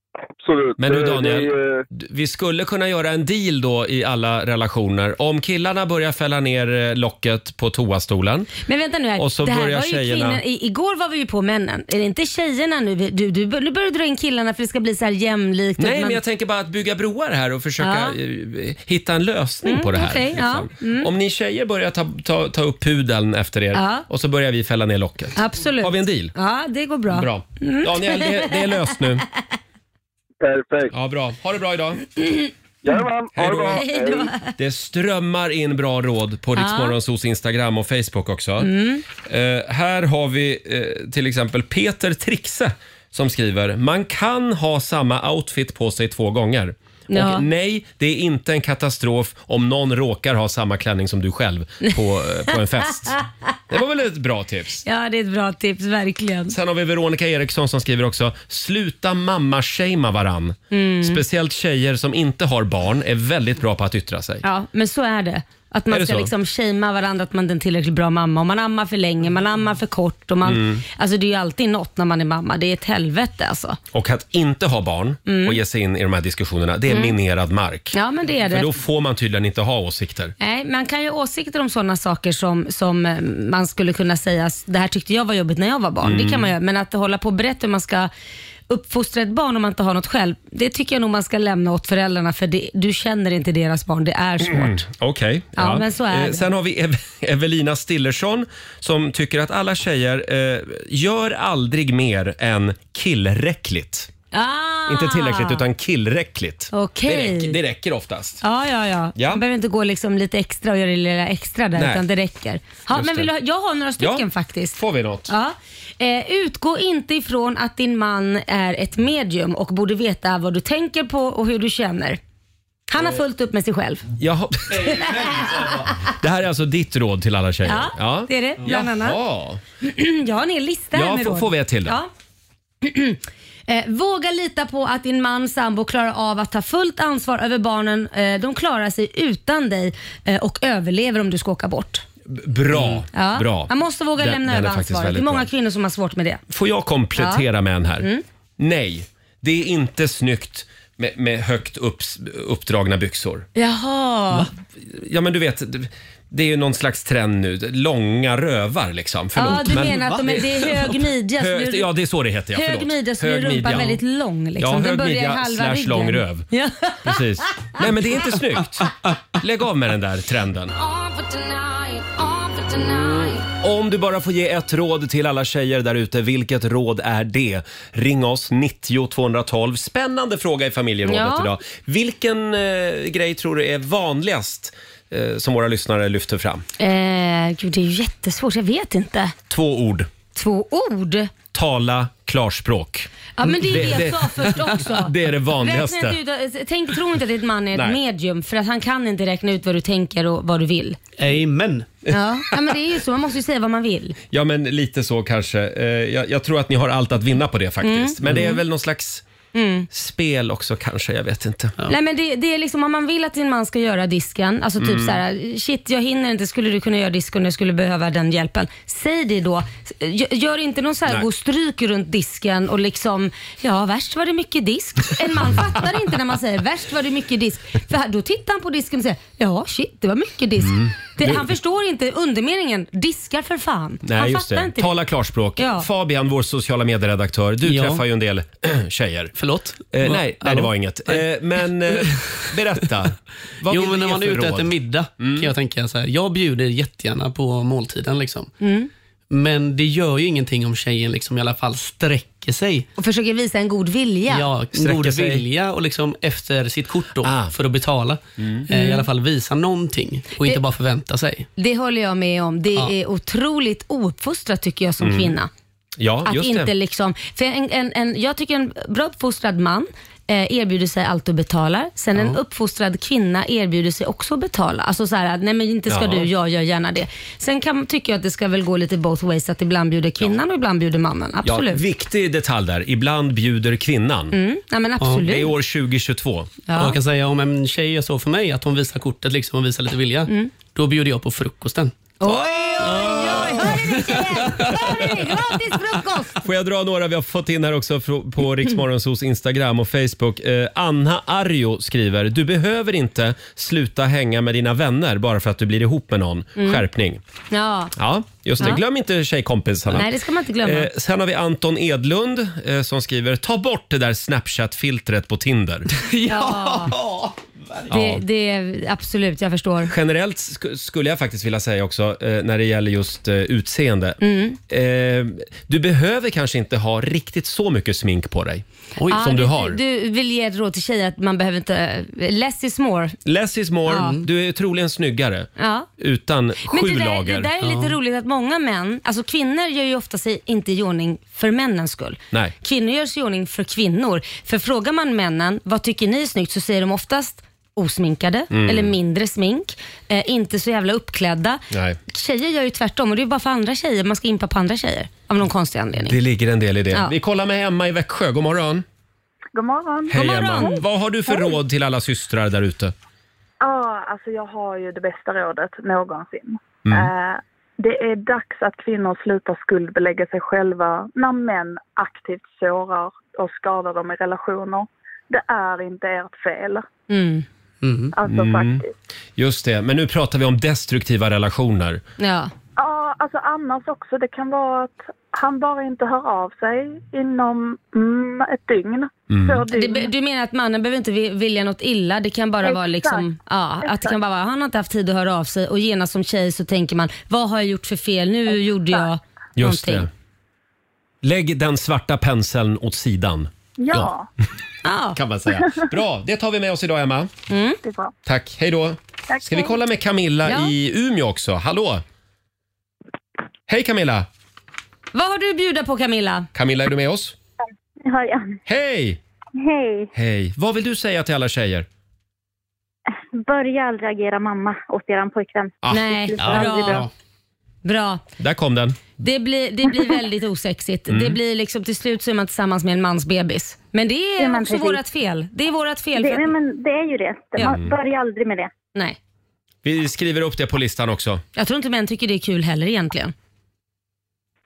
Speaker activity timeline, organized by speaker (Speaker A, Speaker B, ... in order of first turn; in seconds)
Speaker A: 0.4-1.8, 30.4-30.9, 32.8-34.3
Speaker B: 0.8-8.5, 9.2-10.4, 15.8-26.3, 27.1-29.2, 30.9-32.0, 33.3-33.8, 34.5-38.7, 39.2-53.2, 53.7-54.8, 56.5-64.4, 65.9-66.3, 70.4-70.8, 73.9-78.0, 78.5-80.3, 86.0-86.5, 94.4-104.1, 104.9-108.4, 109.2-109.4, 111.8-112.0, 112.9-113.3, 114.0-115.3, 124.2-129.6, 130.9-132.0, 142.3-145.5, 146.5-148.1, 148.6-153.5, 154.9-164.0, 164.6-166.5, 167.0-170.7, 173.3-186.6, 189.5-190.1, 191.5-196.2, 197.7-198.0, 204.3-209.2, 209.9-211.8, 214.8-215.2, 230.6-231.4, 234.0-239.3, 239.9-245.5, 254.7-255.4, 257.2-257.5, 258.4-258.7, 265.0-265.3, 266.0-266.7, 275.9-276.3, 281.4-284.4, 285.2-286.6, 292.8-293.8, 296.4-307.2, 308.0-310.1, 310.6-315.9, 317.9-318.2, 319.9-329.8, 333.2-337.5, 348.5-348.9, 351.7-352.0, 356.0-358.8, 360.1-362.9, 366.9-367.1, 378.2-378.8, 379.4-382.0, 389.3-389.6, 399.6-400.1, 401.2-404.1, 405.1-407.3, 408.2-412.0, 413.7-414.3, 416.5-417.3, 418.7-419.2, 420.1-421.9, 425.8-426.7, 428.4-429.0, 431.1-431.4, 437.6-437.9, 439.8-441.4
Speaker C: 8.7-16.2, 17.8-18.1, 19.6-21.1, 23.7-24.0, 25.4-28.8, 33.7-34.5, 36.5-37.0, 38.6-39.0, 47.1-47.5, 54.8-56.5, 60.7-61.2, 64.4-73.8, 75.3-75.6, 76.9-77.1, 77.9-78.7, 80.4-88.1, 88.7-94.8, 95.6-96.4, 104.3-105.6, 106.7-107.5, 108.4-114.8, 115.3-122.2, 122.9-124.0, 124.8-125.9, 127.7-129.2, 129.8-132.1, 132.8-142.0, 143.1-146.4, 147.2-147.4, 153.6-154.5, 159.3-161.9, 162.5-167.9, 170.7-173.4, 181.1-181.5, 186.8-189.3, 190.3-191.3, 193.4-201.0, 202.1-204.2, 207.8-208.6, 209.5-209.9, 211.9-234.9, 235.6-235.9, 248.6-248.9, 253.0-254.5, 258.7-259.0, 261.6-265.5, 266.2-281.8, 284.3-285.5, 286.7-287.0, 292.2-296.4, 306.6-306.8, 307.5-307.9, 309.9-310.9, 316.2-316.9, 317.9-319.9, 324.2-324.6, 329.1-333.1, 333.9-334.2, 335.6-335.9, 336.7-356.2, 360.1-360.8, 377.1-377.4, 382.2-382.5, 389.7-400.1, 404.8-405.2, 407.5-407.8, 410.4-410.7, 415.1-416.5, 425.9-427.1, 427.8-428.2, 429.2-436.5, 441.6-443.3
Speaker D: 159.9-160.1, 201.2-201.9, 237.6-238.0, 239.3-241.2, 241.9-242.5, 243.7-248.5, 249.3-252.9, 254.3-261.5, 285.0-285.2, 286.7-291.9, 292.8-295.0, 316.0-317.3, 329.0-329.2, 337.6-337.9, 377.8-378.1, 426.4-427.1
Speaker E: 359.5-360.2, 363.6-376.9, 378.1-378.9, 382.8-390.1, 392.6-393.3, 393.8-394.1, 403.8-404.3, 407.8-408.1, 409.3-409.7
Speaker F: 418.0-418.5, 419.6-420.1, 423.4-425.7, 426.3-427.0, 434.4-435.0, 436.1-438.7